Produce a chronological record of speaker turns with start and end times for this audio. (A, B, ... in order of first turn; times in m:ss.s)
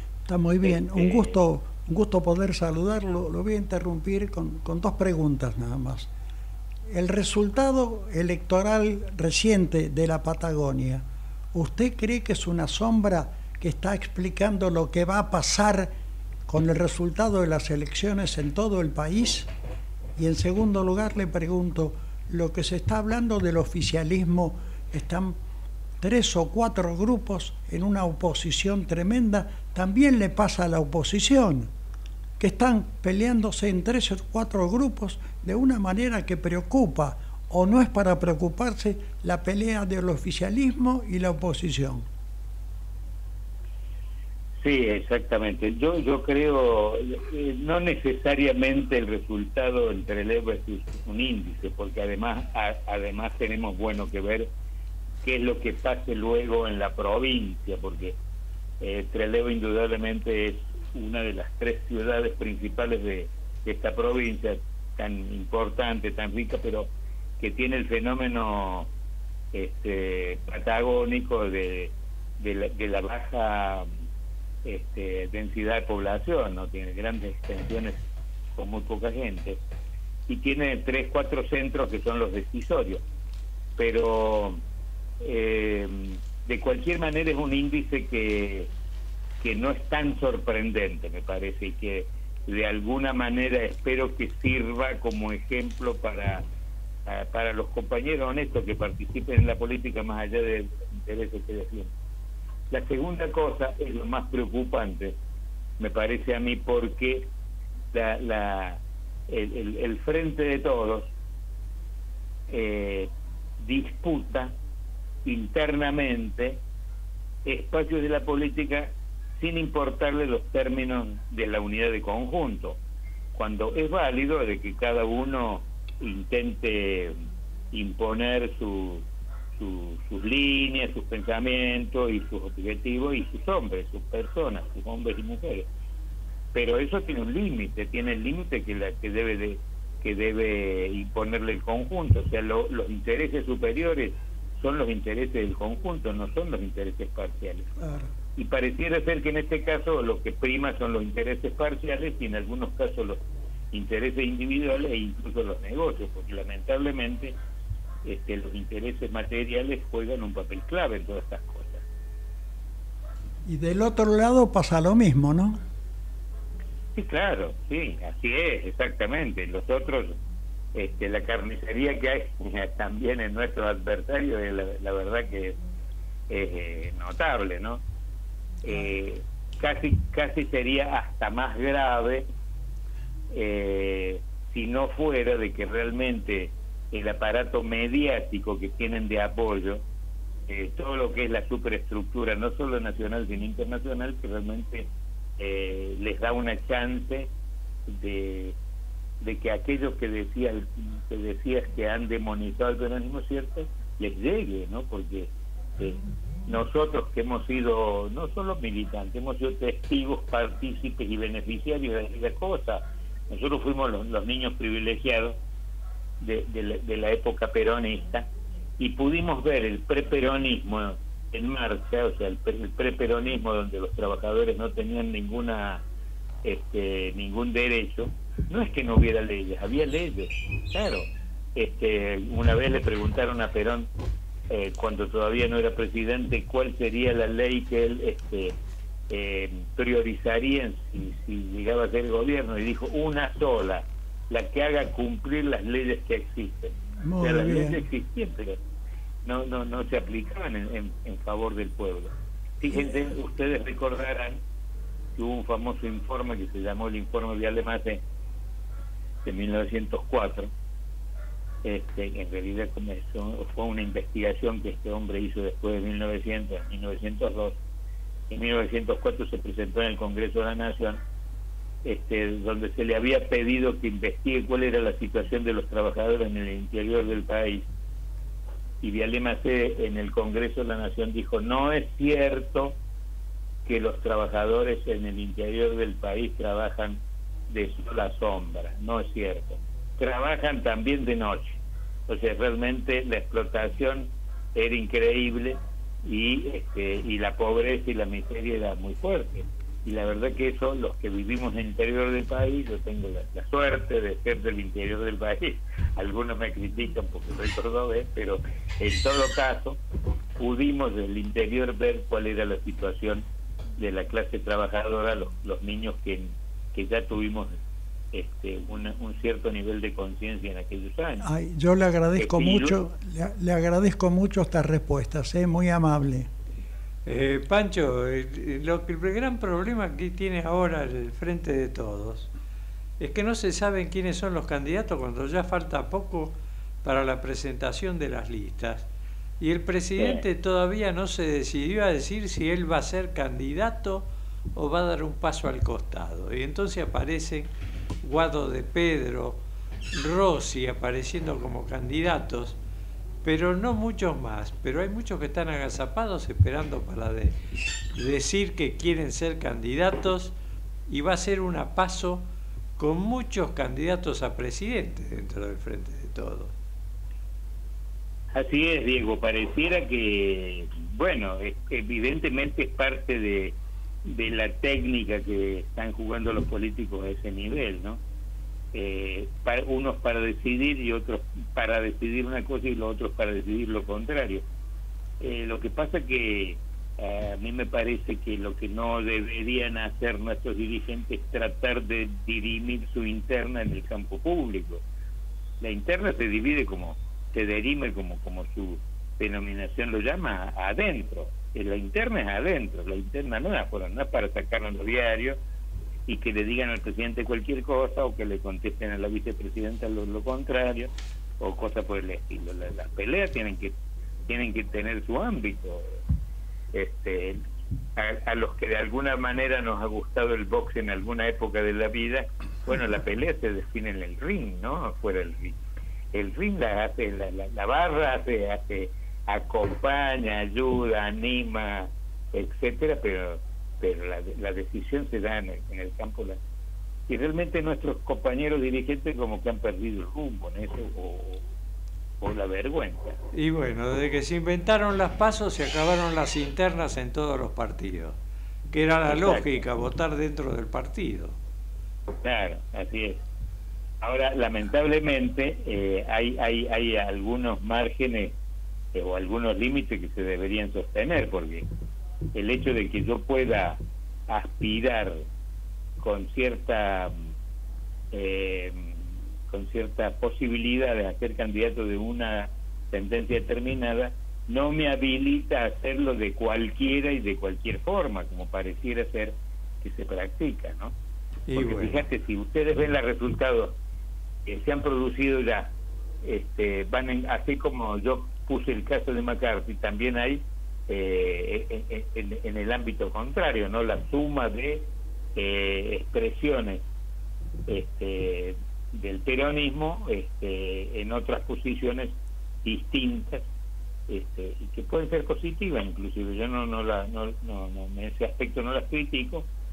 0:00.3-0:06.1 A
0:00.6-0:01.3 B
0:06.9-0:15.9 A
0:16.5-0:19.5 A
0:20.2-0:25.4 A
0:26.0-0:31.7 A
0:32.4-0:42.0 A
0:44.6-0:54.5 B
0:55.2-0:58.2 B
0:58.8-1:08.9 B
1:09.5-1:13.9 B
1:14.6-1:18.0 B
1:18.5-1:19.6 B
1:20.3-1:23.0 B
1:23.8-1:24.6 B
1:25.2-1:28.7 B
1:29.4-1:36.4 B
1:37.1-1:41.9 B
1:42.7-1:45.2 B
1:45.8-1:47.3 B
1:47.9-1:51.1 B
1:52.5-1:54.5 B
1:55.2-1:56.6 B
1:57.4-2:02.8 B
2:03.3-2:07.1 B
2:07.7-2:15.7 B
2:16.5-2:27.7 B
2:27.8-2:28.1 A
2:28.4-2:37.4 B
2:38.0-2:41.8 B
2:43.4-2:45.6 A
2:47.0-2:50.2 B
2:50.7-2:55.6 B
2:56.3-2:57.8 B
2:58.6-3:02.3 B
3:03.3-3:09.8 B
3:10.5-3:17.3 B
3:17.9-3:18.6 B
3:19.2-3:35.4 B
3:36.2-3:38.3 B
3:38.8-3:45.8 B
3:46.4-3:53.9 B
3:54.5-3:58.6 B
3:59.1-4:08.6 B
4:07.0-4:07.8 A
4:09.2-4:12.1 B
4:12.6-4:14.4 B
4:15.2-4:18.0 B
4:19.2-4:20.5 B
4:21.6-4:27.6 B
4:28.3-4:31.0 B
4:31.8-4:37.7 B
4:38.8-4:42.8 B
4:43.6-4:47.0 B
4:47.5-5:09.8 B
5:10.4-5:13.3 B
5:13.8-5:17.6 B
5:18.1-5:21.2 B
5:21.2-5:26.3 A
5:22.2-5:22.8 B
5:27.0-5:32.3 C
5:33.0-5:38.9 C
5:39.4-5:47.5 C
5:40.0-5:40.2 B
5:48.0-5:49.4 C
5:49.9-5:52.6 C
5:53.2-5:57.3 C
5:57.9-6:00.3 C
6:00.9-6:06.5 C
6:08.3-6:18.0 B
6:18.7-6:24.4 B
6:25.2-6:34.8 B
6:35.6-6:45.4 B
6:46.1-6:53.7 B
6:54.3-6:55.9 B
6:56.7-6:57.4 B
6:58.0-7:05.6 B
7:06.1-7:16.4 B
7:17.1-7:21.4 B
7:22.2-7:23.2 B
7:23.3-7:28.2 C
7:28.7-7:31.4 C
7:29.1-7:29.6 B
7:32.2-7:33.2 B
7:34.0-7:38.3 B
7:38.9-7:41.7 B
7:42.3-7:45.2 B
7:46.0-7:47.2 B
7:48.1-8:00.9 B
8:01.5-8:02.0 C
8:01.5-8:03.8 B
8:04.5-8:16.8 B
8:17.7-8:23.5 B
8:24.1-8:29.5 B